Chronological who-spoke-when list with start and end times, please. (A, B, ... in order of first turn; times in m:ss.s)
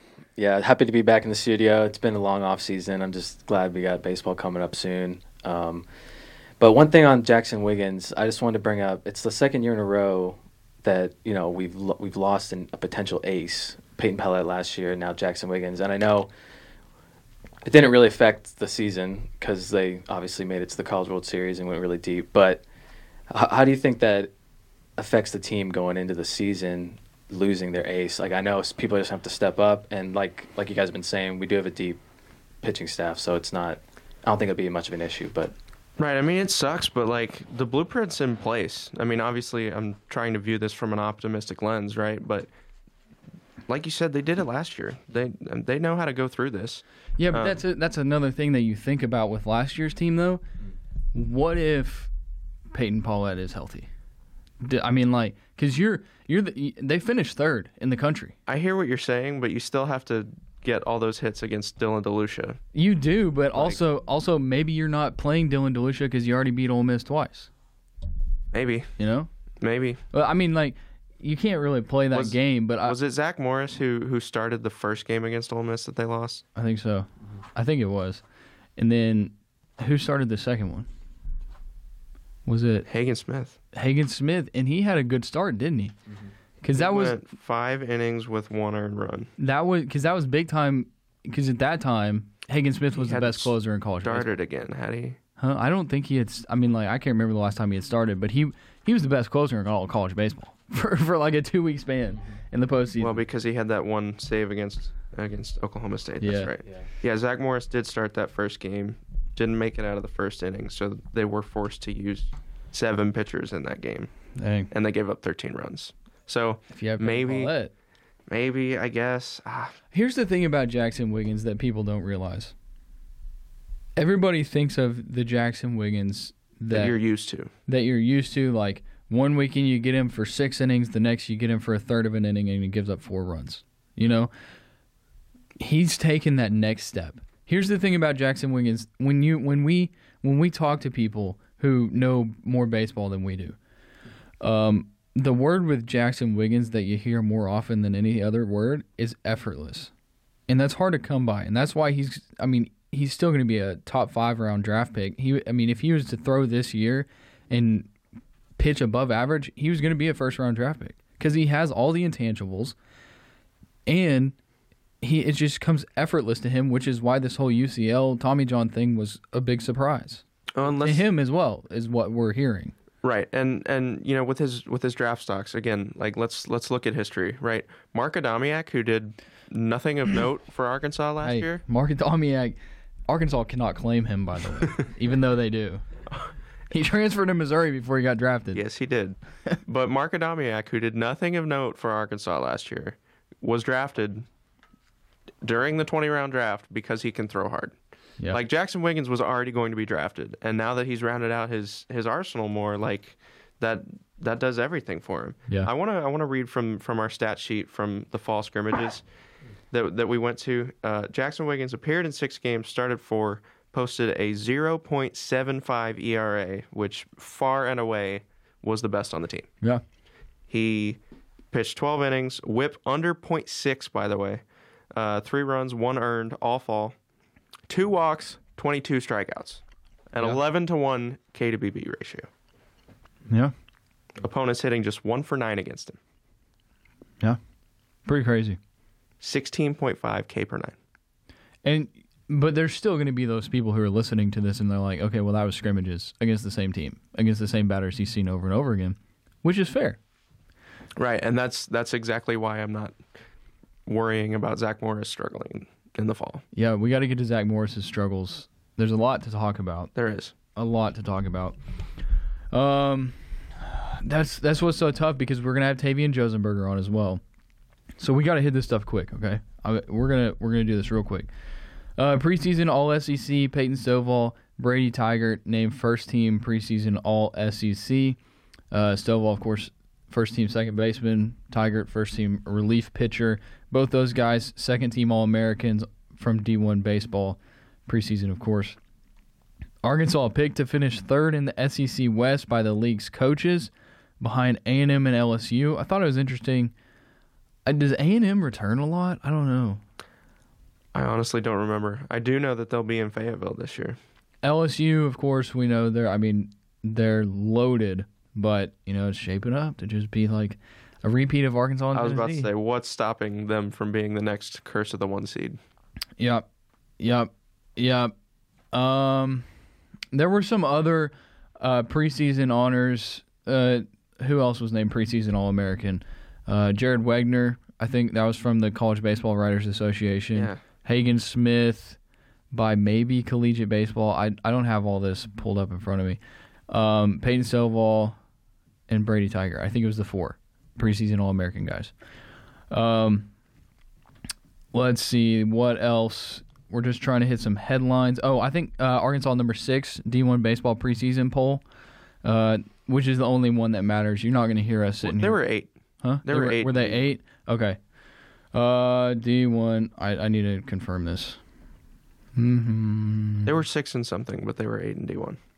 0:00.4-0:05.9 A
0:06.6-0:16.3 A
0:17.6-0:22.6 A
0:23.3-0:24.3 A
0:25.0-0:32.0 A
0:32.6-0:35.5 A
0:36.0-0:42.5 B
0:43.7-0:47.6 B
0:47.2-0:50.4 C
0:51.1-0:52.1 C
0:52.7-0:53.9 C
0:54.6-0:58.4 C
0:58.5-1:02.6 B
1:02.8-1:07.5 C
1:08.5-1:09.0 B
1:09.0-1:09.3 C
1:09.6-1:10.0 B
1:10.1-1:13.0 C
1:12.1-1:16.4 B
1:16.5-1:18.2 C
1:18.8-1:20.9 C
1:22.4-1:22.9 C
1:22.9-1:23.6 B
1:23.7-1:26.0 C
1:26.6-1:27.2 C
1:26.8-1:29.3 B
1:29.4-1:34.3 C
1:33.0-1:35.2 B
1:35.4-1:43.2 C
1:43.0-1:57.5 B
1:46.2-1:46.5 C
1:54.4-1:54.7 C
1:56.7-1:57.7 C
1:58.3-1:59.8 B
1:59.9-2:02.5 C
2:04.0-2:07.0 C
2:06.7-2:07.5 B
2:07.7-2:14.3 C
2:15.6-2:23.6 C
2:24.4-2:29.9 C
2:30.5-2:37.9 C
2:38.6-2:42.8 C
2:43.9-2:44.4 C
2:45.0-2:50.2 C
2:50.6-2:51.0 B
2:50.8-2:52.7 C
2:53.0-3:01.6 B
3:01.2-3:02.6 C
3:03.1-3:05.8 C
3:06.7-3:08.6 C
3:08.5-3:14.2 B
3:15.4-3:29.0 B
3:29.7-3:39.5 B
3:40.5-3:41.0 B
3:41.5-3:44.4 B
3:44.9-3:47.0 B
3:47.7-3:52.3 B
3:54.2-3:56.0 B
3:58.0-3:58.6 C
3:59.2-4:00.8 B
4:01.6-4:10.0 C
4:11.0-4:13.0 B
4:13.9-4:16.4 B
4:16.5-4:19.9 C
4:20.0-4:20.3 B
4:20.5-4:21.6 C
4:22.5-4:27.2 C
4:28.0-4:31.3 C
4:32.0-4:38.2 C
4:38.7-4:48.8 C
4:49.8-4:56.7 C
4:57.6-4:59.8 C
5:00.9-5:04.0 B
5:04.4-5:12.5 C
5:11.9-5:15.6 B
5:16.2-5:16.4 C
5:17.0-5:18.1 C
5:18.7-5:19.5 C
5:20.1-5:32.0 C
5:32.5-5:38.2 C
5:38.9-5:41.9 C
5:42.7-5:43.3 C
5:44.7-5:51.6 C
5:52.2-5:55.4 C
5:55.0-5:55.7 B
5:56.0-5:57.8 C
5:56.2-5:57.0 B
5:58.5-6:01.4 C
6:02.4-6:03.5 C
6:03.4-6:05.4 B